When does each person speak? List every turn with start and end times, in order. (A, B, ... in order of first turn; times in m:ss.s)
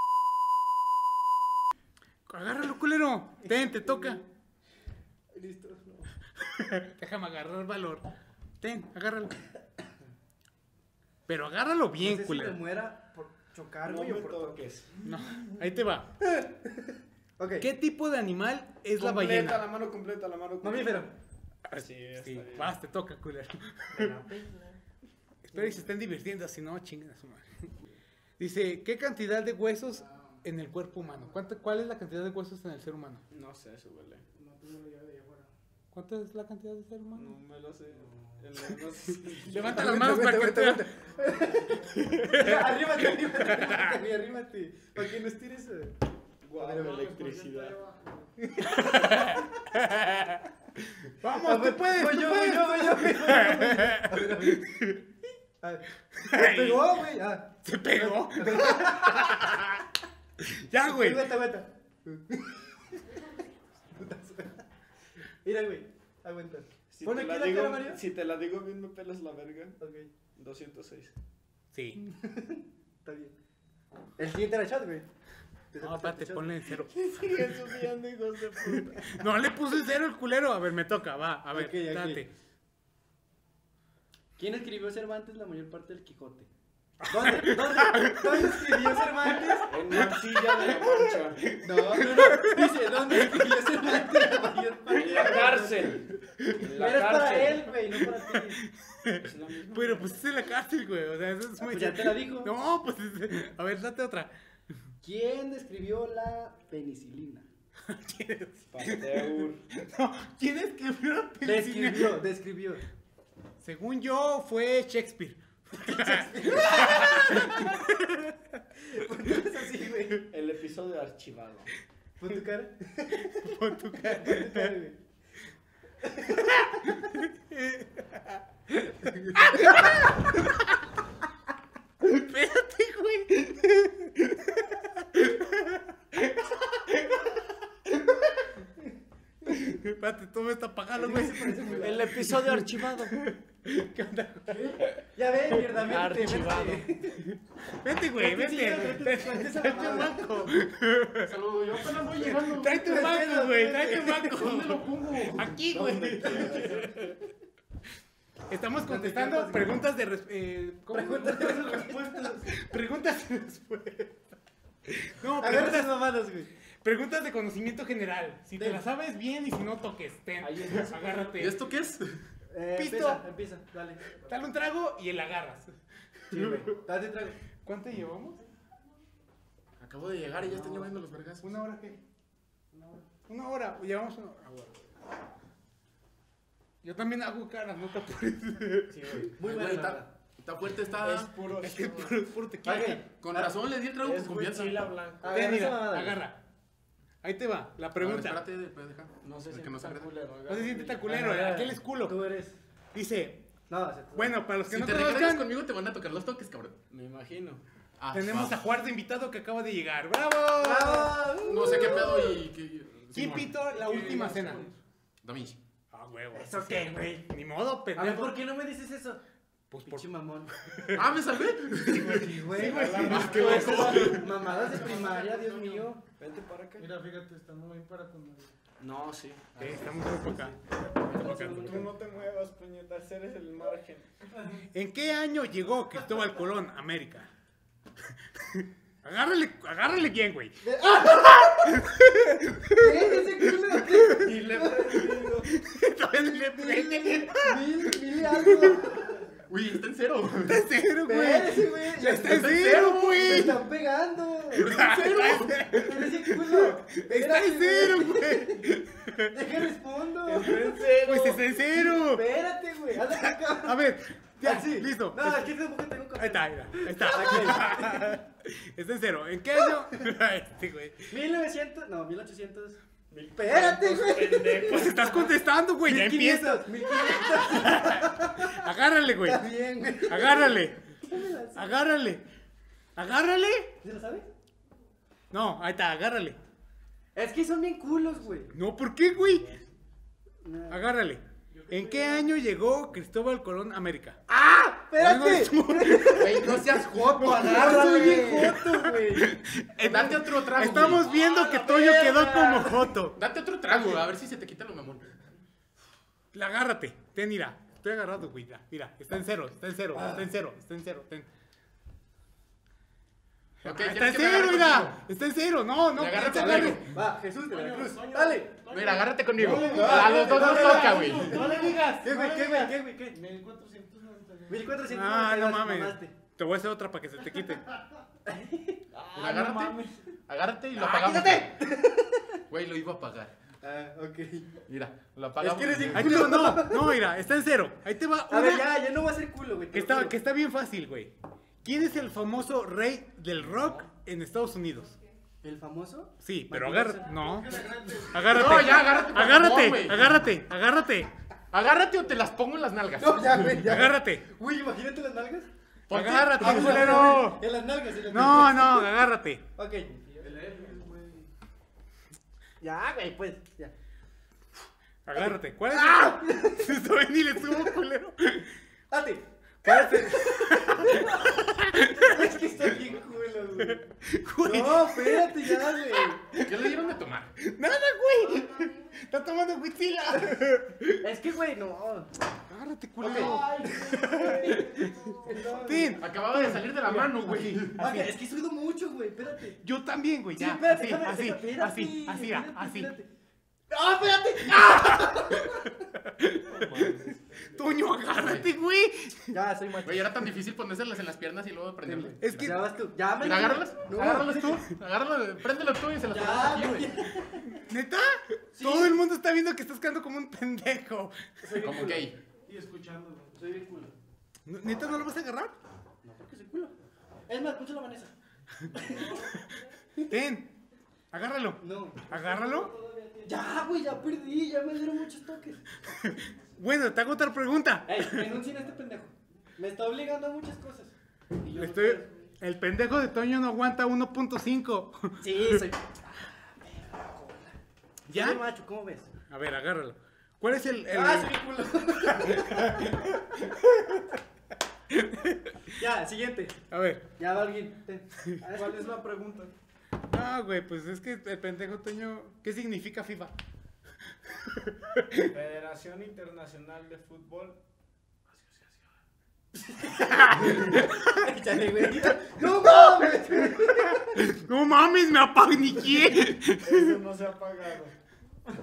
0:02.3-0:04.2 A
0:03.4-0:04.2 B
0:05.3-0:06.1 B
0:06.4-0:08.1 A
0:08.6-0:09.4 A
0:11.3-0:12.6 A
0:12.0-0:14.6 B
0:13.8-0:15.1 C
0:15.0-0:16.1 A
0:17.4-0:17.7 B
0:17.6-0:19.6 A
0:19.0-0:21.1 C
0:20.6-0:21.1 B
0:21.7-0:24.1 A
0:21.7-0:22.8 C
0:23.9-0:24.8 B
0:25.5-0:27.7 A
0:25.5-0:25.9 B
0:28.4-0:33.2 A
0:30.0-0:30.4 D
0:31.0-0:31.3 D
0:33.3-0:34.2 C
0:34.3-0:35.5 D
0:35.9-0:37.3 A
0:37.1-0:40.0 C
0:37.9-0:38.4 D
0:39.4-0:40.9 A
0:39.5-0:46.0 B
0:41.2-0:42.0 D
0:42.0-0:43.9 A
0:46.4-0:47.8 C
0:46.6-0:48.3 D
0:46.6-0:47.0 B
0:48.5-0:49.4 B
0:48.7-0:50.4 A
0:51.0-0:55.0 A
0:51.3-0:54.7 B
0:55.6-0:59.6 B
0:56.2-0:57.0 A
0:57.6-0:59.8 A
1:00.4-1:01.3 A
1:00.8-1:03.0 B
1:03.9-1:04.6 B
1:05.4-1:08.0 B
1:06.9-1:09.8 C
1:09.8-1:10.1 B
1:10.4-1:11.1 C
1:11.7-1:12.0 A
1:12.0-1:13.4 B
1:14.2-1:15.1 B
1:15.7-1:16.6 B
1:15.8-1:17.7 A
1:16.9-1:19.1 C
1:18.7-1:22.3 A
1:21.5-1:22.2 B
1:24.4-1:26.5 B
1:27.0-1:28.9 A
1:27.1-1:29.8 B
1:29.7-1:31.5 C
1:29.9-1:31.0 A
1:31.6-1:33.4 A
1:31.6-1:36.0 B
1:34.9-1:37.7 C
1:36.4-1:36.6 A
1:36.7-1:38.6 B
1:38.0-1:44.3 A
1:39.2-1:40.2 C
1:41.6-1:42.5 B
1:45.0-1:47.5 B
1:47.9-1:52.2 A
1:48.7-1:49.6 C
1:51.4-1:52.8 B
1:53.6-1:58.4 A
1:55.8-1:57.7 B
1:58.8-2:00.3 B
2:00.3-2:01.7 C
2:02.2-2:05.0 B
2:03.2-2:04.7 A
2:06.0-2:06.6 B
2:06.4-2:10.7 A
2:09.3-2:09.8 B
2:12.0-2:18.3 A
2:19.4-2:24.9 A
2:20.9-2:22.3 B
2:21.7-2:23.2 C
2:25.1-2:27.3 B
2:25.8-2:26.9 C
2:27.2-2:31.4 A
2:28.2-2:30.5 B
2:31.2-2:33.0 E
2:32.2-2:36.9 A
2:32.6-2:34.4 B
2:33.9-2:35.4 E
2:35.6-2:37.2 C
2:38.5-2:41.8 A
2:38.8-2:39.8 B
2:40.9-2:42.4 B
2:41.4-2:42.5 D
2:42.5-2:44.2 A
2:44.9-2:46.0 A
2:45.4-2:46.5 B
2:46.8-2:51.6 A
2:48.6-2:48.8 B
2:50.4-2:51.5 C
2:51.4-2:52.2 E
2:52.5-2:54.1 B
2:52.7-2:53.2 A
2:54.2-2:55.7 A
2:56.3-2:56.7 A
2:56.3-2:57.4 B
2:57.6-2:58.4 A
2:59.8-3:01.6 E
3:01.4-3:02.0 A
3:02.7-3:03.0 D
3:03.3-3:04.9 A
3:06.8-3:09.3 A
3:08.9-3:09.3 C
3:09.4-3:10.1 B
3:09.4-3:11.3 E
3:11.0-3:12.2 C
3:11.5-3:13.0 A
3:12.6-3:13.5 B
3:13.1-3:14.9 E
3:14.0-3:15.4 C
3:15.2-3:16.2 B
3:15.3-3:16.4 A
3:17.2-3:18.4 A
3:18.0-3:20.1 E
3:19.2-3:21.1 C
3:20.5-3:22.2 A
3:21.0-3:22.6 B
3:22.9-3:23.5 A
3:23.7-3:24.4 B
3:24.1-3:25.5 A
3:24.7-3:26.8 E
3:26.9-3:27.6 C
3:28.0-3:28.6 E
3:28.1-3:31.2 A
3:30.6-3:32.4 B
3:31.4-3:34.1 E
3:33.1-3:34.6 A
3:33.7-3:34.7 D
3:33.9-3:34.7 C
3:35.2-3:35.6 E
3:35.9-3:38.4 A
3:36.3-3:37.3 B
3:37.9-3:39.2 B
3:39.7-3:41.1 A
3:39.8-3:40.9 B
3:40.9-3:42.3 E
3:41.8-3:46.0 B
3:42.4-3:44.2 A
3:42.5-3:45.1 C
3:42.9-3:44.2 E
3:43.4-3:45.9 D
3:46.1-3:46.9 C
3:46.8-3:48.5 D
3:48.8-3:49.5 C
3:49.6-3:50.6 A
3:49.6-3:49.9 D
3:50.2-3:51.8 B
3:51.1-3:51.9 A
3:51.1-3:54.1 C
3:54.7-3:57.3 A
3:58.3-4:04.3 A
4:00.6-4:01.8 B
4:02.7-4:05.1 B
4:04.1-4:05.5 C
4:05.4-4:08.8 A
4:06.3-4:09.3 B
4:09.5-4:10.6 E
4:10.5-4:13.6 A
4:11.0-4:14.8 B
4:12.2-4:13.3 E
4:14.5-4:15.7 E
4:14.6-4:19.4 A
4:15.7-4:18.7 B
4:19.3-4:20.7 B
4:20.2-4:21.5 C
4:20.6-4:22.3 A
4:21.7-4:23.8 B
4:23.5-4:25.5 A
4:24.4-4:28.2 B
4:26.2-4:31.1 A
4:31.1-4:32.8 B
4:33.1-4:35.2 C
4:33.4-4:35.3 B
4:34.6-4:41.0 A
4:35.8-4:38.7 B
4:39.2-4:41.8 B
4:41.5-4:42.2 A
4:43.0-4:43.7 A
4:43.8-4:44.3 B
4:45.3-4:46.4 A
4:47.1-4:48.5 B
4:48.5-4:49.5 A
4:50.4-4:50.8 B
4:50.7-4:54.2 A
4:51.7-4:52.1 B
4:51.7-4:52.2 D
4:54.3-4:59.3 B
4:54.9-5:03.2 A
4:56.1-4:57.4 E
4:59.8-5:01.1 E
5:01.2-5:02.9 B
5:03.1-5:05.1 E
5:06.3-5:11.3 A
5:13.6-5:16.9 A
5:13.6-5:15.0 E
5:15.9-5:16.9 E
5:16.2-5:18.5 B
5:17.4-5:21.9 D
5:18.7-5:21.4 E
5:19.4-5:23.2 B
5:19.6-5:22.7 A
5:23.1-5:24.7 D
5:24.5-5:26.1 B
5:24.9-5:27.7 A
5:28.2-5:28.9 B
5:28.9-5:29.9 C
5:29.1-5:31.6 E
5:30.8-5:31.4 A
5:31.2-5:32.4 B
5:32.5-5:33.3 E
5:33.6-5:34.5 B
5:34.7-5:36.2 E
5:35.4-5:37.0 B
5:35.9-5:38.8 A
5:38.3-5:40.2 B
5:39.7-5:45.0 A
5:45.4-5:47.2 B
5:46.2-5:51.1 A
5:47.1-5:48.8 D
5:48.2-5:50.1 E
5:51.5-5:53.6 E
5:53.0-5:55.5 B
5:53.6-5:54.2 A
5:55.9-5:57.0 E
5:55.9-5:57.4 A
5:56.3-5:58.9 B
5:58.1-5:59.4 A
5:59.6-6:00.3 B
6:00.0-6:01.3 D
6:02.6-6:03.7 B
6:05.0-6:08.5 A
6:05.7-6:06.7 B
6:08.9-6:13.8 B
6:09.6-6:12.4 A
6:13.6-6:16.7 A
6:14.4-6:16.2 B
6:16.4-6:17.4 E
6:17.4-6:21.0 A
6:21.0-6:22.1 B
6:22.5-6:24.8 A
6:23.0-6:26.0 B
6:23.0-6:26.0 D
6:25.5-6:28.1 A
6:26.0-6:27.8 E
6:27.8-6:29.6 B
6:29.6-6:32.9 A
6:30.4-6:33.1 B
6:33.7-6:35.8 B
6:34.4-6:37.0 A
6:36.5-6:37.7 C
6:37.5-6:39.4 A
6:38.2-6:38.5 E
6:39.3-6:40.2 B
6:39.8-6:42.6 E
6:41.8-6:44.6 B
6:42.2-6:42.6 A
6:43.2-6:46.9 E
6:44.1-6:44.5 A
6:46.1-6:47.5 B
6:47.4-6:51.3 A
6:48.5-6:49.0 B
6:51.4-6:52.1 B
6:51.5-6:52.2 E
6:52.5-6:53.4 D
6:53.3-6:53.9 B
6:54.4-6:55.6 A
6:56.0-6:56.7 B
6:57.3-6:58.1 B
6:58.7-6:59.2 B
6:58.7-6:59.3 D
7:00.0-7:00.6 A
7:01.1-7:02.7 A
7:01.6-7:02.4 B
7:02.1-7:03.5 D
7:03.2-7:05.6 B
7:05.9-7:08.4 A
7:07.8-7:12.1 B
7:11.5-7:15.6 A
7:15.2-7:15.8 B
7:16.6-7:17.5 B
7:18.1-7:18.4 A
7:18.1-7:19.1 B
7:19.3-7:21.4 A
7:20.9-7:22.9 B
7:22.0-7:24.1 A
7:24.9-7:25.7 A
7:25.7-7:26.6 B
7:26.7-7:27.1 A
7:27.2-7:28.9 B
7:28.5-7:29.5 C
7:30.1-7:33.3 A
7:34.3-7:35.3 A
7:35.3-7:37.6 C
7:38.4-7:38.7 C
7:39.5-7:44.2 B
7:40.0-7:41.2 A
7:42.4-7:47.0 A
7:46.6-7:47.9 C